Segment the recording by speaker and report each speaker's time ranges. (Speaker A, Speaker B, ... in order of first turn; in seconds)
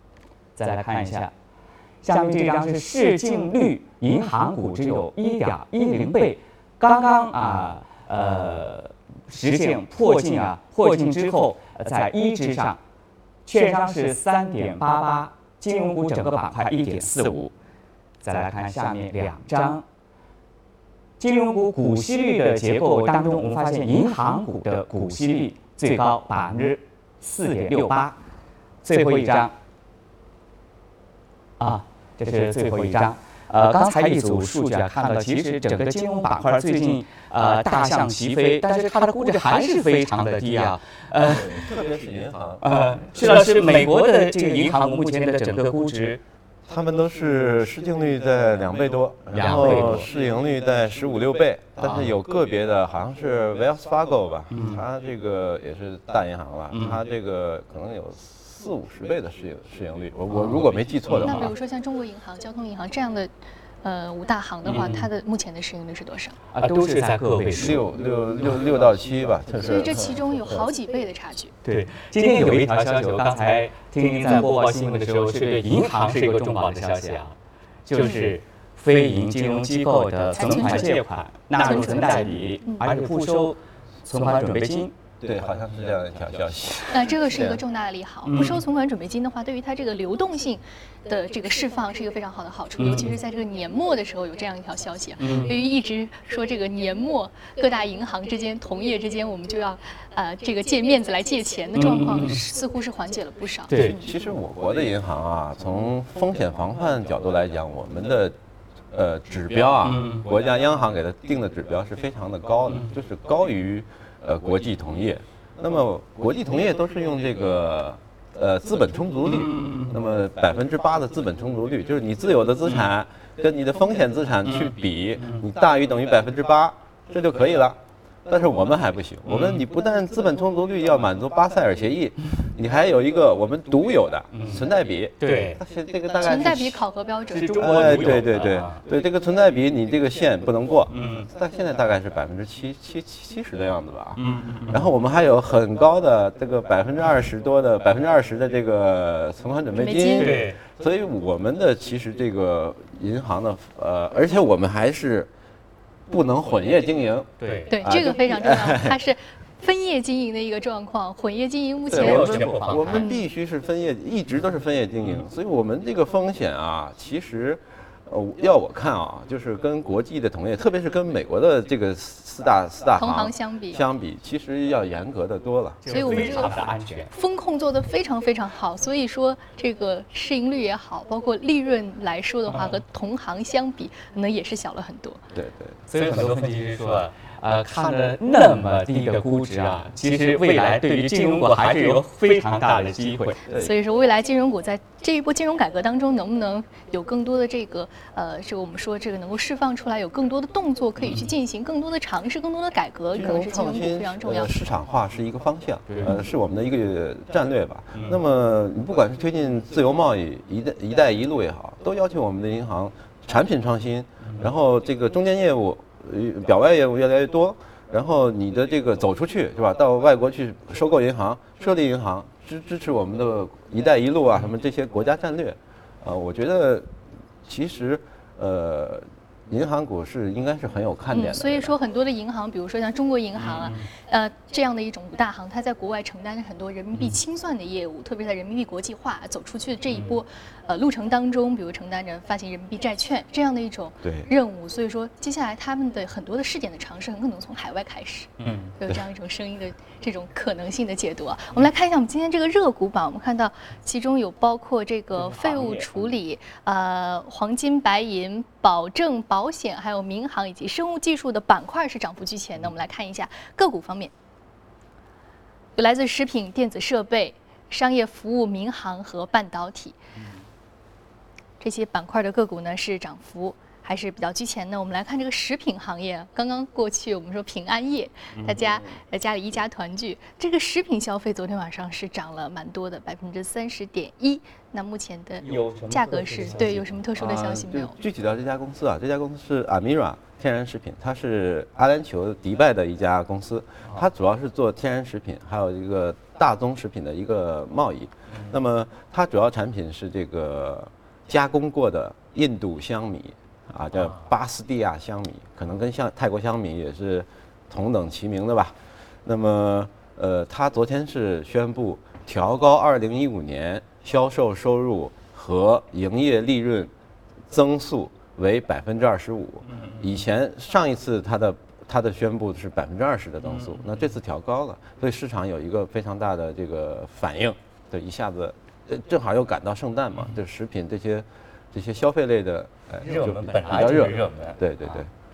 Speaker A: 0.6-1.3, 2.0-12.8, 13.4-17.5, 18.2-19.8, 21.2-28.2, 28.8-29.5, 31.6-41.7, 42.6-46.2, 49.3-50.1, 54.5-54.8, 60.3-61.5, 64.7-65.1, 66.5-67.8, 71.6-84.9, 88.2-88.6, 92.8-93.1, 95.2-95.5, 101.8-102.3, 103.7-104.0, 109.8-110.2, 119.3-119.9, 129.3-129.6, 134.3-134.7, 135.2-135.6, 137.3-138.8, 140.9-141.3, 144.2-144.9, 150.2-150.6, 157.4-157.8, 161.9-163.1, 175.8-177.1, 185.9-193.4, 205.9-206.2, 233.4-233.8, 248.4-248.7, 255.3-255.8, 285.4-287.0, 333.0-334.6
Speaker B: 41.2-42.6, 46.7-61.5, 67.5-70.6, 85.2-87.6, 103.8-108.3, 108.9-136.8, 137.6-155.3, 156.1-157.3, 157.8-159.0, 161.9-175.8, 185.3-185.8, 203.1-226.9, 227.4-231.7, 244.0-244.3, 287.1-316.9, 317.5-335.1
Speaker C: 61.1-63.3, 63.8-66.4, 69.7-71.5, 78.0-78.3, 80.3-80.9, 81.6-82.8, 86.9-104.0, 136.2-138.2, 149.7-150.3, 157.7-163.2, 172.9-173.8, 175.9-185.2, 193.6-204.6, 231.1-264.1, 265.8-270.0, 271.6-288.0